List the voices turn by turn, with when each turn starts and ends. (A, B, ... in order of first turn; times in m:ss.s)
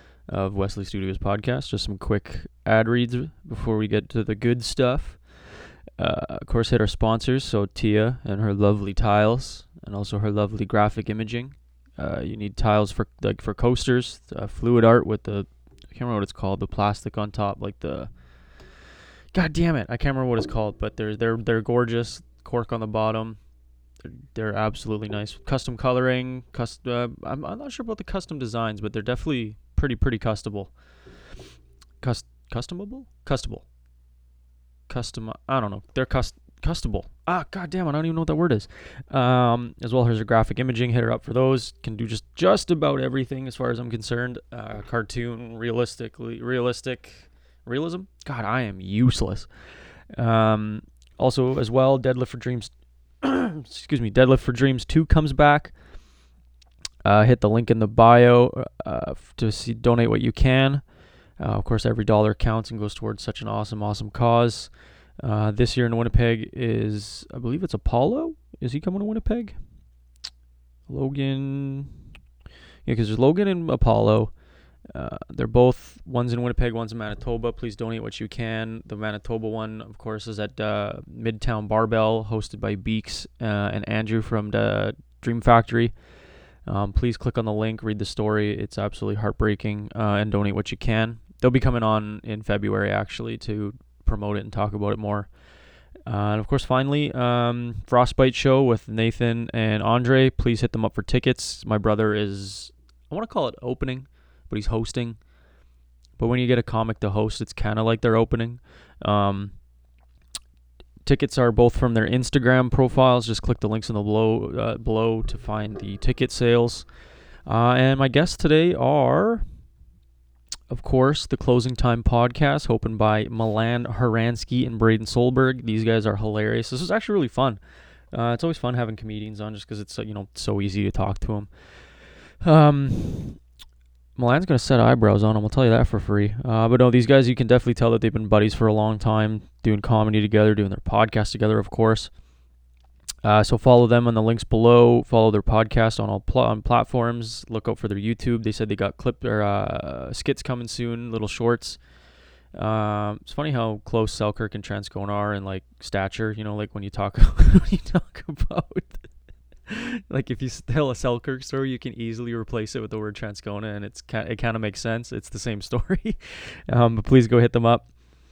0:00.3-0:05.2 A
0:06.0-0:18.1 A
0:19.3-0:23.4 A
0:24.0-0:30.7 A
0:32.0-0:33.6 A
0:34.9-0:49.5 A
0:50.1-0:52.7 A
0:53.2-0:55.7 A
0:57.0-1:00.8 A
1:01.4-1:09.6 A
1:10.9-1:11.9 A
1:12.8-1:14.3 A
1:14.9-1:25.9 A
1:26.6-1:35.3 A
1:36.0-1:45.2 A
1:46.2-1:49.5 A
1:51.0-1:56.8 A
1:57.4-1:59.4 A
2:00.7-2:07.6 A
2:08.1-2:11.5 A
2:12.4-2:13.4 A
2:14.2-2:22.1 A
2:23.2-2:31.8 A
2:32.5-2:39.0 A
2:39.7-2:46.2 A
2:46.7-2:47.9 A